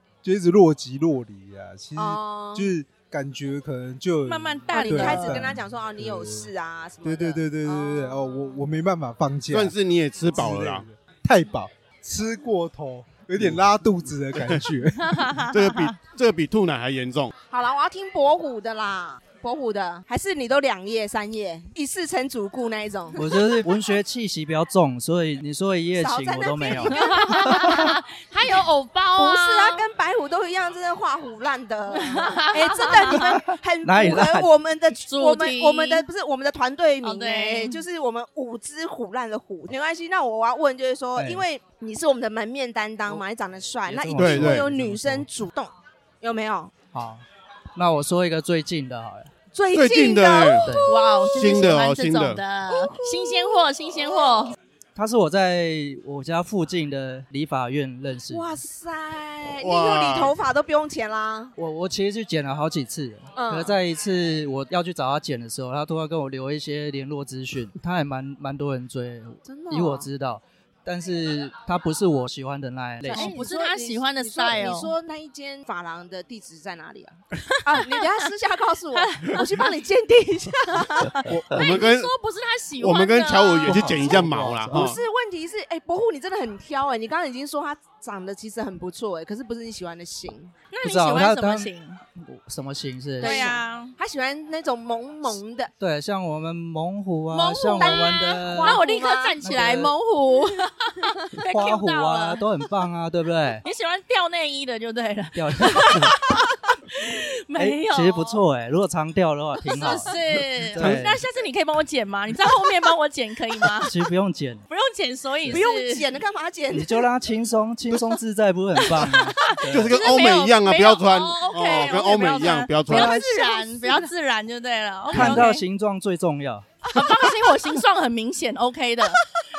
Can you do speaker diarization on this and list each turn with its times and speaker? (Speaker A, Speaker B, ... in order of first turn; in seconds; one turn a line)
Speaker A: 0.2-6.5
Speaker B: 2.0-2.7
Speaker C: 4.2-5.5
Speaker B: 4.7-8.7
Speaker A: 7.0-9.7
Speaker D: 9.5-10.8
Speaker A: 10.3-15.3
Speaker D: 14.3-14.6
Speaker C: 15.0-15.9
Speaker D: 15.4-17.3
Speaker B: 17.5-23.4
Speaker E: 23.1-27.9
Speaker B: 26.0-27.9
Speaker C: 26.9-29.9
Speaker B: 29.2-46.7
Speaker C: 32.0-33.4
Speaker E: 33.8-34.5
Speaker C: 35.0-36.1
Speaker C: 37.0-37.8
Speaker E: 41.2-41.4
Speaker E: 43.9-45.3
Speaker D: 44.2-44.7
Speaker E: 46.9-49.3
Speaker B: 49.5-51.5
Speaker D: 49.7-52.4
Speaker E: 50.6-50.9
Speaker C: 50.9-54.6
Speaker B: 52.7-54.5
Speaker E: 55.0-58.6
Speaker B: 58.3-61.5
Speaker D: 59.5-60.4
Speaker E: 61.6-73.4
Speaker B: 63.4-63.8
Speaker B: 69.4-70.1
Speaker B: 73.1-81.3
Speaker C: 73.1-74.9
Speaker C: 77.8-78.1
Speaker C: 78.9-79.7
Speaker D: 81.2-82.1
Speaker C: 81.5-83.9
Speaker D: 82.8-85.0
Speaker E: 83.7-84.8
Speaker B: 84.7-90.5
Speaker C: 90.7-92.0
Speaker E: 90.8-93.5
Speaker C: 93.2-94.0
Speaker B: 93.2-95.7
Speaker E: 95.8-98.8
Speaker C: 97.3-102.4
Speaker B: 97.8-99.7
Speaker E: 99.4-99.9
Speaker E: 101.5-103.6
Speaker C: 103.6-108.4
Speaker E: 105.3-106.1
Speaker E: 107.6-110.1
Speaker C: 109.7-114.0
Speaker E: 110.7-111.2
Speaker E: 113.8-114.6
Speaker C: 114.7-116.0
Speaker B: 115.5-117.1
Speaker E: 116.7-119.9
Speaker C: 118.9-125.6
Speaker D: 119.7-123.2
Speaker B: 122.9-124.1
Speaker E: 125.1-126.7
Speaker B: 125.2-125.5
Speaker C: 126.9-129.2